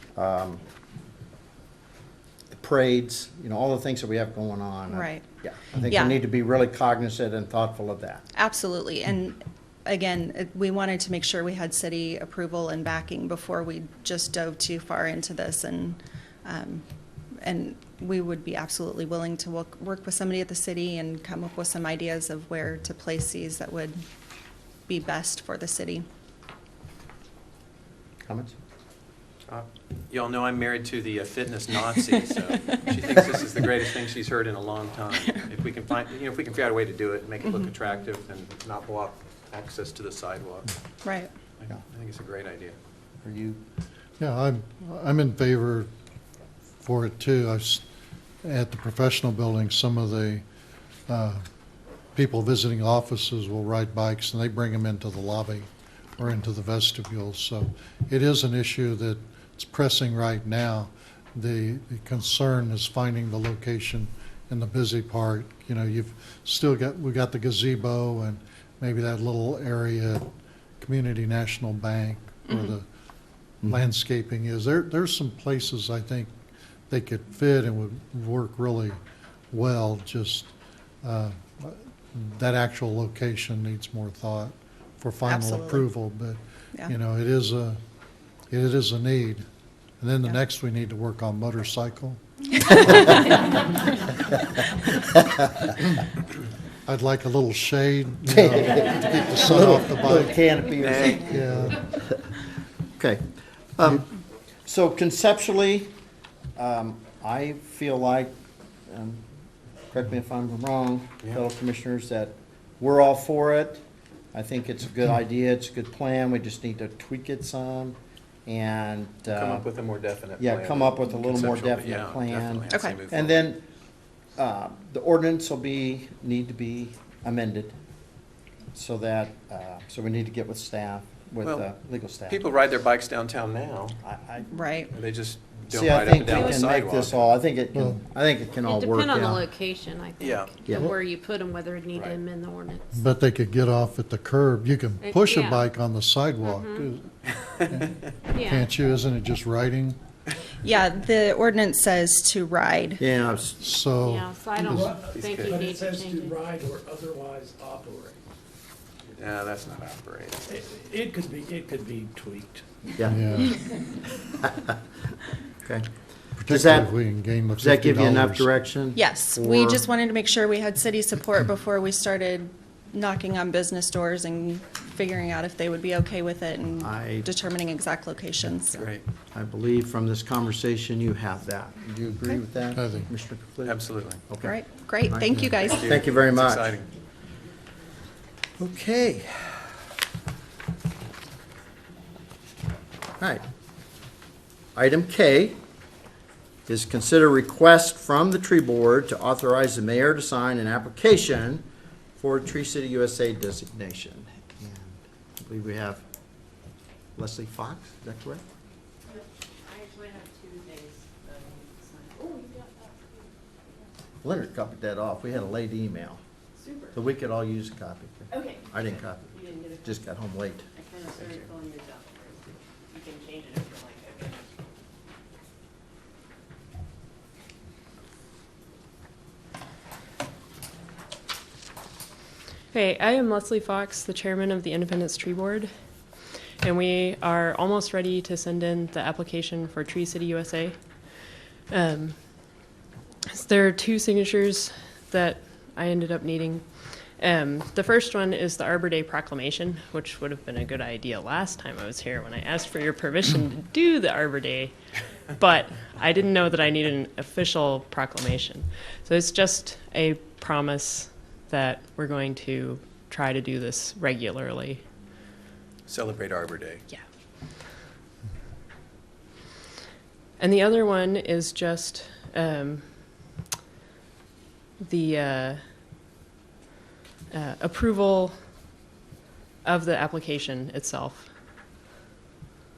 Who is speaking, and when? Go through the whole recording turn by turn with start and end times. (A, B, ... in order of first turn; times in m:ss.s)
0:00.2-0:00.6 A
0:02.5-0:08.2 A
0:04.9-0:05.2 B
0:05.8-0:06.2 B
0:08.3-0:16.8 B
0:17.4-0:24.0 B
0:24.9-0:26.0 B
0:28.3-0:28.5 A
0:29.5-0:40.7 C
0:41.0-0:41.3 B
0:41.6-0:42.8 C
0:43.2-0:43.6 A
0:44.2-0:45.9 D
0:46.8-0:47.8 D
0:48.4-0:50.4 D
0:51.1-0:51.4 D
0:52.2-1:10.3 D
1:10.8-1:12.8 D
1:13.6-1:16.3 D
1:16.9-1:19.0 D
1:19.5-1:20.5 D
1:21.0-1:27.8 D
1:25.3-1:25.9 B
1:28.5-1:29.4 D
1:30.0-1:32.2 D
1:32.7-1:33.2 D
1:36.9-1:41.8 D
1:38.3-1:42.2 A
1:40.8-1:41.2 C
1:43.0-1:43.2 A
1:43.8-1:44.1 A
1:44.7-1:45.9 A
1:46.6-1:48.3 A
1:48.9-1:49.2 A
1:49.9-1:53.8 A
1:54.3-1:59.7 A
1:59.3-2:03.5 C
2:00.4-2:03.6 A
2:02.7-2:03.0 B
2:04.4-2:07.7 A
2:08.7-2:12.4 A
2:11.4-2:11.7 C
2:12.3-2:14.0 C
2:14.0-2:14.6 A
2:14.5-2:14.9 B
2:14.9-2:17.3 C
2:15.7-2:19.5 A
2:17.7-2:18.0 D
2:18.6-2:22.8 E
2:20.2-2:20.6 C
2:20.6-2:20.9 A
2:21.9-2:22.2 C
2:22.9-2:27.2 D
2:25.0-2:25.7 E
2:26.4-2:26.8 E
2:27.7-2:30.0 D
2:28.3-2:28.7 E
2:30.6-2:33.0 B
2:33.0-2:33.6 A
2:33.6-2:35.0 D
2:34.0-2:36.4 E
2:34.6-2:38.2 F
2:35.1-2:35.6 C
2:39.2-2:40.4 C
2:39.6-2:39.9 F
2:40.4-2:42.7 F
2:43.1-2:43.6 D
2:44.4-2:44.7 A
2:46.4-2:48.5 D
2:46.4-2:46.9 A
2:47.6-2:49.8 A
2:48.9-2:58.9 B
2:56.8-2:57.3 A
2:58.7-3:06.7 A
2:58.8-2:59.0 C
3:02.7-3:03.1 D
3:03.6-3:04.2 C
3:04.4-3:06.2 B
3:05.6-3:06.9 C
3:08.6-3:09.6 A
3:14.8-3:15.6 A
3:16.7-3:21.6 A
3:22.2-3:26.0 A
3:27.2-3:28.4 A
3:29.1-3:33.0 G
3:34.2-3:36.2 A
3:36.9-3:40.7 A
3:39.4-3:39.8 G
3:40.7-3:44.5 G
3:52.7-3:55.7 H
3:56.6-4:00.8 H
4:01.7-4:02.2 H
4:03.3-4:06.6 H
4:07.2-4:14.7 H
4:15.3-4:24.8 H
4:25.9-4:26.8 C
4:30.4-4:32.8 H
4:34.8-4:35.6 H
4:37.3-4:38.4 H
4:39.6-4:41.3 H